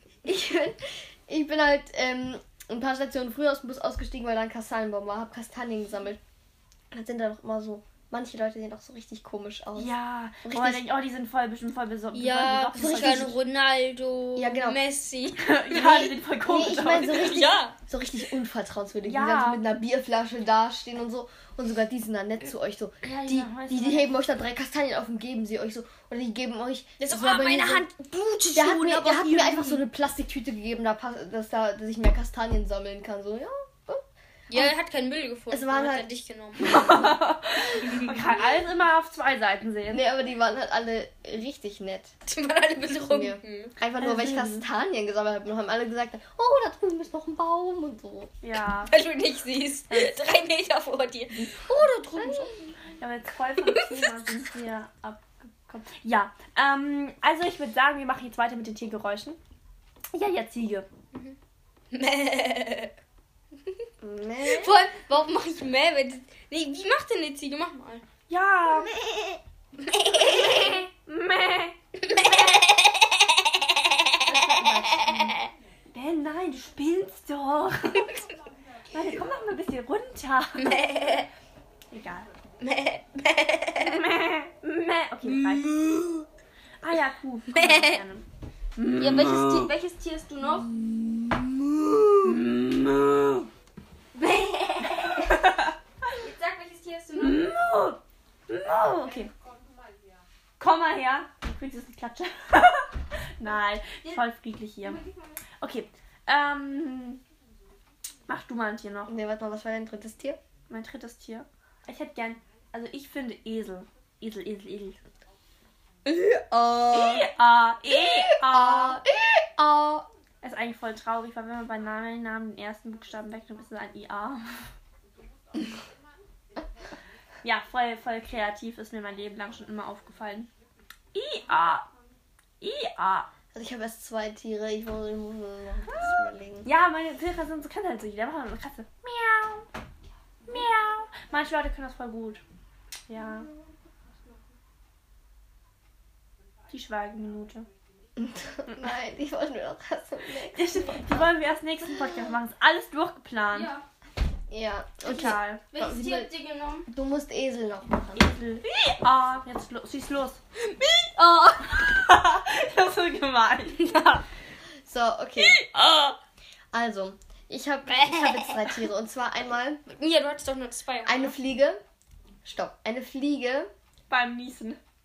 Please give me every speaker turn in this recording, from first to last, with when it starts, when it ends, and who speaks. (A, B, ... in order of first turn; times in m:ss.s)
0:00.2-0:06.2 A
0:06.9-0:09.9 A
0:09.8-0:13.3 B
0:10.4-0:10.8 A
0:12.1-0:16.2 C
0:12.8-0:13.3 A
0:14.4-0:14.8 A
0:15.4-0:17.5 B
0:16.4-0:27.8 A
0:17.1-0:17.8 C
0:19.0-0:19.6 B
0:23.0-0:24.1 B
0:27.0-0:28.5 C
0:27.1-0:29.8 B
0:28.5-0:34.0 A
0:34.5-0:38.1 C
0:35.5-0:36.1 A
0:36.6-0:40.1 B
0:39.9-0:42.1 A
0:42.2-0:43.7 C
0:43.1-0:48.3 A
0:44.0-0:44.6 B
0:48.4-0:48.9 B
0:48.9-0:52.5 C
0:49.9-0:50.3 B
0:51.3-0:51.7 B
0:53.0-0:59.4 B
0:53.6-0:54.0 C
1:00.1-1:00.8 B
1:01.9-1:02.9 C
1:04.0-1:04.8 A
1:04.4-1:08.0 C
1:08.3-1:09.0 B
1:09.8-1:10.8 C
1:10.1-1:11.7 B
1:12.0-1:15.4 C
1:14.2-1:18.2 B
1:18.9-1:21.1 B
1:20.6-1:21.3 C
1:21.9-1:22.3 B
1:22.6-1:24.0 C
1:23.8-1:25.8 B
1:25.3-1:26.2 C
1:26.8-1:28.2 B
1:27.5-1:28.0 C
1:28.8-1:29.7 B
1:29.0-1:30.8 C
1:30.5-1:31.1 B
1:32.2-1:33.5 B
1:34.2-1:35.3 C
1:34.8-1:35.7 B
1:36.2-1:37.4 C
1:37.2-1:39.3 B
1:40.6-1:42.9 B
1:43.4-1:45.0 B
1:45.6-1:47.2 B
1:48.3-1:49.1 B
1:49.1-1:50.4 A
1:50.7-1:55.0 B
1:56.0-1:57.3 A
1:56.9-1:59.0 B
1:57.9-2:00.0 A
2:00.4-2:04.7 B
2:07.4-2:10.5 B
2:11.1-2:11.8 B
2:12.6-2:13.3 B
2:13.5-2:16.7 A
2:16.6-2:19.6 B
2:20.5-2:22.4 B
2:23.1-2:23.5 B
2:26.7-2:27.7 B
2:28.2-2:31.3 A
2:30.5-2:33.7 B
2:33.5-2:33.8 C
2:34.5-2:36.3 A
2:35.0-2:35.7 B
2:35.7-2:36.8 C
2:36.9-2:38.3 A
2:38.1-2:40.4 B
2:40.6-2:41.8 C
2:41.7-2:44.1 B
2:43.8-2:44.2 C
2:44.8-2:45.6 A
2:45.7-2:46.2 B
2:46.7-2:49.8 A
2:47.9-2:48.5 C
2:49.8-2:51.3 C
2:51.0-2:51.8 A
2:52.4-2:53.7 A
2:54.1-2:54.8 B